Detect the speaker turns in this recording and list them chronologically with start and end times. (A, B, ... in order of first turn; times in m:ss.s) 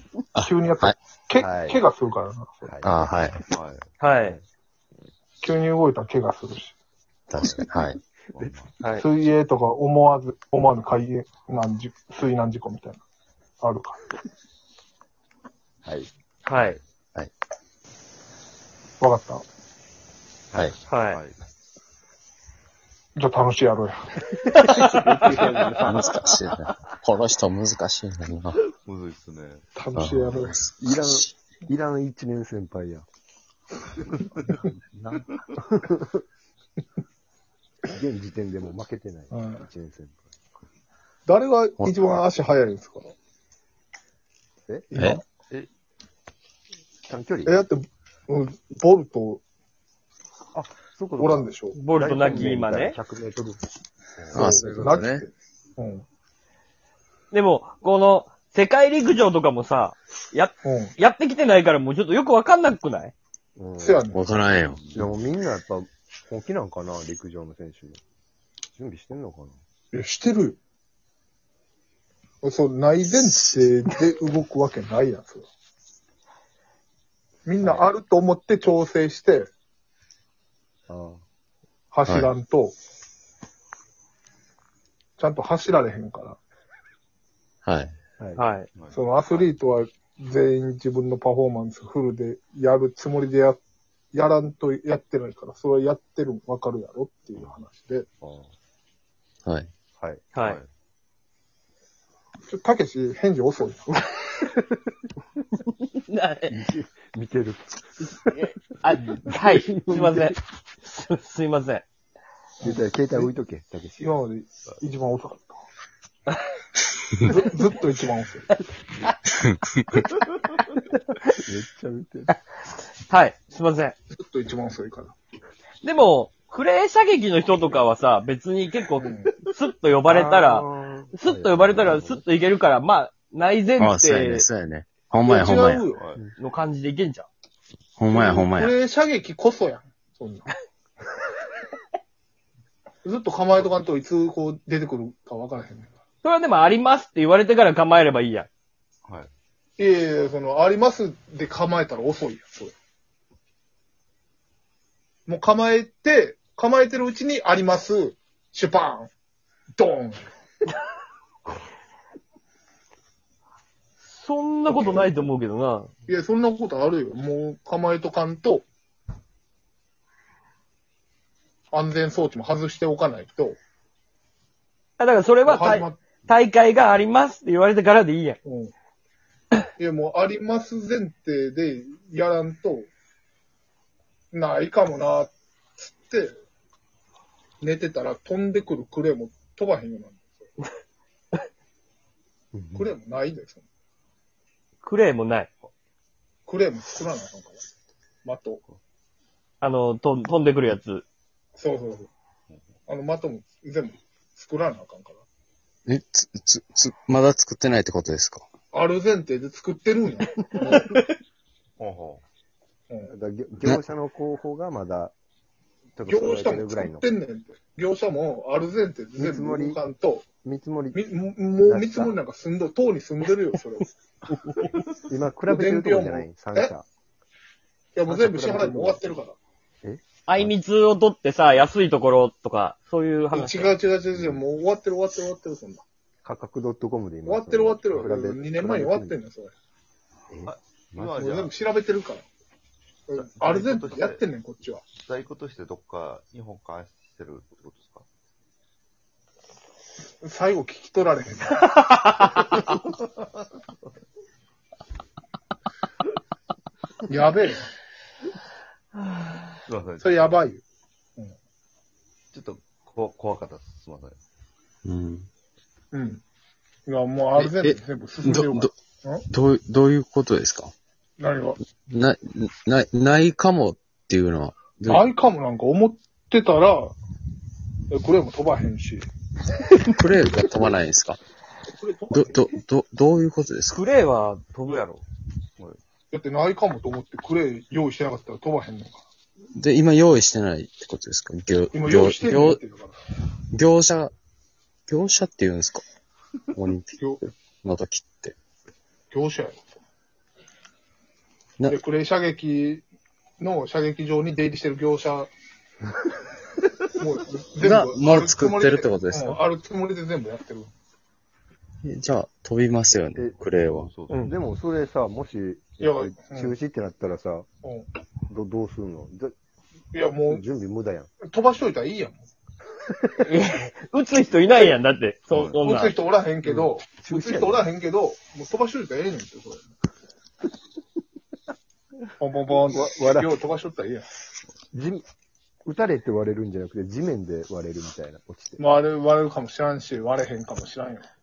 0:00.4-0:01.0 A
0:00.4-0:02.7 B
0:01.4-0:01.8 C
0:02.7-0:03.1 C
0:02.8-0:03.4 A
0:03.5-0:03.9 D
0:04.0-0:04.4 E
0:05.4-0:06.8 B
0:07.3-0:08.0 A
0:07.4-0:07.7 C
0:08.4-0:08.7 D
0:08.8-0:09.0 E
0:09.0-0:13.0 B
0:13.6-0:14.0 B
0:15.8-0:16.1 C
0:16.5-0:16.8 E
0:19.0-0:19.4 B
0:20.9-0:21.2 E
0:21.0-0:21.4 D
0:23.2-0:24.2 B
0:24.5-0:26.3 C
0:25.8-0:28.7 A
0:28.7-0:29.6 D
0:29.8-0:30.6 B
0:30.0-0:31.3 A
0:30.8-0:33.0 C
0:34.3-0:35.5 D
0:35.6-0:36.2 C
0:37.9-0:40.6 C
0:39.3-0:39.6 B
0:41.3-0:43.1 B
0:44.9-0:45.2 B
0:47.1-0:47.6 C
0:47.5-0:49.4 B
0:50.5-0:53.6 C
0:51.2-0:52.6 B
0:51.7-0:53.0 E
0:54.2-0:54.6 C
0:54.3-0:55.2 A
0:54.4-0:56.0 B
0:57.3-1:03.1 E
1:00.6-1:01.0 B
1:03.6-1:04.0 C
1:03.8-1:04.2 B
1:04.1-1:04.8 A
1:04.9-1:08.0 C
1:08.8-1:09.6 C
1:09.9-1:10.6 B
1:12.4-1:15.4 B
1:17.5-1:19.5 B
1:17.6-1:17.9 C
1:20.9-1:21.2 C
1:21.9-1:22.8 B
1:22.1-1:22.3 A
1:25.2-1:26.4 B
1:27.6-1:27.9 A
1:28.4-1:28.7 E
1:28.7-1:29.5 D
1:28.9-1:33.6 B
1:34.1-1:38.1 B
1:38.2-1:38.5 C
1:40.4-1:40.6 E
1:40.4-1:40.7 D
1:42.5-1:44.0 B
1:46.1-1:46.6 E
1:46.5-1:50.4 C
1:48.8-1:51.8 E
1:52.6-1:53.3 B
1:52.6-1:54.1 C
1:54.0-1:55.6 B
1:57.3-1:58.5 B
1:59.4-2:00.0 A
2:00.9-2:02.3 C
2:03.1-2:04.0 E
2:04.1-2:05.1 B
2:05.8-2:14.5 E
2:09.0-2:09.3 B
2:10.1-2:12.2 C
2:13.8-2:15.9 A
2:15.2-2:16.0 B
2:16.4-2:17.3 E
2:18.0-2:18.8 A
2:18.1-2:20.5 B
2:23.0-2:25.9 B
2:26.2-2:28.5 E
2:29.8-2:32.7 B
2:35.3-2:39.1 B
2:39.8-2:40.2 B
2:44.1-2:45.9 E
2:44.7-2:45.1 B
2:46.1-2:48.6 B
2:51.7-2:53.6 B
2:55.0-2:58.4 E
2:55.4-2:56.0 B
2:58.4-2:58.7 B
2:59.8-3:02.9 B
3:04.3-3:06.3 B
3:07.6-3:10.5 B
3:12.5-3:12.9 C
3:12.8-3:13.6 B
3:14.8-3:15.5 E
3:16.5-3:17.6 B
3:18.2-3:18.6 B
3:19.6-3:21.0 E
3:21.6-3:22.1 B
3:22.9-3:25.2 B
3:25.9-3:28.5 A
3:28.7-3:31.0 B
3:31.8-3:32.2 D
3:33.1-3:35.1 C
3:36.0-3:37.1 C
3:36.1-3:40.3 B
3:39.2-3:39.8 C
3:40.4-3:41.0 C
3:41.0-3:43.9 B
3:41.6-3:42.2 C
3:45.0-3:46.9 C
3:45.5-3:46.7 B
3:48.0-3:49.4 B
3:48.1-3:49.2 C
3:49.8-3:50.5 C
3:50.3-3:53.8 E
3:53.3-3:55.8 B
3:54.1-3:54.4 C
3:56.2-3:59.2 C
3:57.3-3:59.5 B
4:00.3-4:01.5 C
4:00.5-4:01.5 D
4:01.2-4:02.2 B
4:03.1-4:04.8 B
4:03.2-4:04.3 D
4:05.0-4:08.1 D
4:10.2-4:11.7 B
4:12.6-4:13.1 D
4:17.1-4:17.7 B
4:19.7-4:20.3 D
4:20.0-4:20.6 B
4:22.3-4:24.2 D
4:24.8-4:25.3 A
4:25.9-4:26.2 B
4:26.9-4:29.2 B
4:27.4-4:28.7 A
4:29.3-4:30.7 A
4:31.2-4:31.6 B
4:31.9-4:35.1 A
4:34.9-4:37.0 B
4:37.9-4:39.1 B
4:39.8-4:41.2 A
4:41.8-4:42.6 B
4:42.1-4:43.8 A
4:43.7-4:45.0 E
4:46.1-4:49.0 B
4:49.6-4:52.6 A
4:51.7-4:53.0 B
4:53.5-4:54.1 A
4:54.9-4:55.8 A
4:56.5-4:58.4 A
4:57.0-4:57.2 B
4:59.1-4:59.6 B
5:01.7-5:02.8 B
5:03.4-5:05.3 B
5:06.9-5:10.7 B
5:07.6-5:09.4 A
5:11.8-5:13.9 A
5:13.1-5:13.4 C
5:13.9-5:14.3 D
5:14.2-5:17.5 C
5:15.8-5:16.6 B
5:18.3-5:19.3 C
5:19.9-5:20.4 B
5:20.3-5:21.1 C
5:21.2-5:22.2 B
5:23.2-5:26.0 E
5:25.3-5:25.6 D
5:25.3-5:29.6 B
5:26.4-5:27.7 C
5:32.2-5:34.1 B
5:32.6-5:33.3 C
5:34.7-5:35.1 C
5:35.6-5:38.7 C
5:38.6-5:41.1 B